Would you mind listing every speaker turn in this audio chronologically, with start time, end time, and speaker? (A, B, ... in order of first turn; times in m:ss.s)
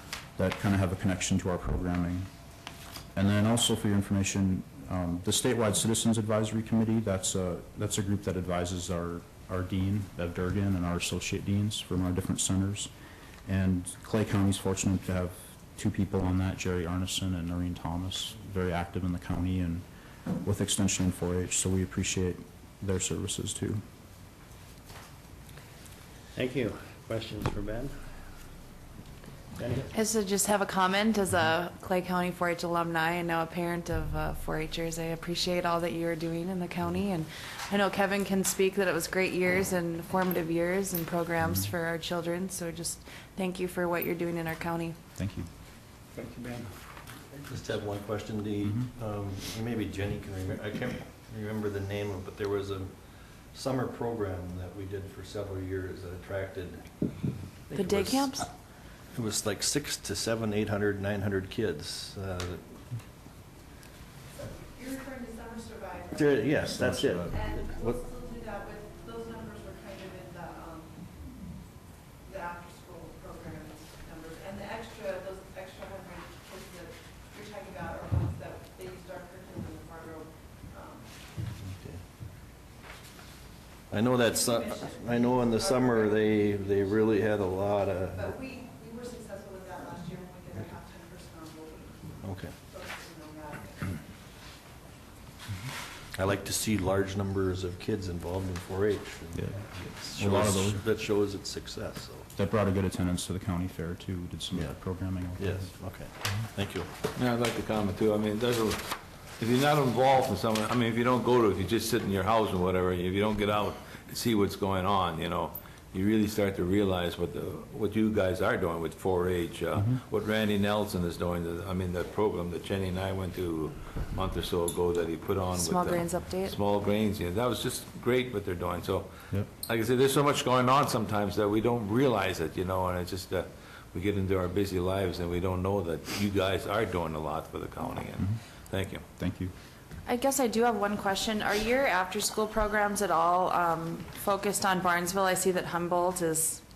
0:00.4-0:02.3 A
0:03.1-0:12.9 A
0:13.4-0:19.8 A
0:20.4-0:23.8 A
0:26.3-0:27.9 B
0:29.6-0:29.9 B
0:29.9-0:45.0 C
0:41.4-0:41.7 A
0:45.2-0:45.5 A
0:46.2-0:46.6 B
0:47.5-0:53.0 D
0:48.6-0:48.9 A
0:53.5-0:56.8 D
0:57.7-0:58.4 D
0:57.7-0:58.5 C
0:59.1-1:02.8 D
1:04.8-1:06.0 E
1:06.1-1:08.1 D
1:06.7-1:07.3 A
1:08.2-1:10.8 E
1:12.4-1:16.8 E
1:17.4-1:20.2 E
1:21.6-1:22.0 D
1:23.9-1:28.4 D
1:28.5-1:31.9 E
1:32.2-1:32.6 D
1:32.8-1:33.9 E
1:36.1-1:42.3 D
1:39.3-1:40.8 A
1:42.3-1:45.7 A
1:45.4-1:46.9 D
1:47.1-2:09.1 F
2:05.6-2:06.6 C
2:09.6-2:19.0 F
2:19.2-2:19.5 A
2:20.0-2:26.6 C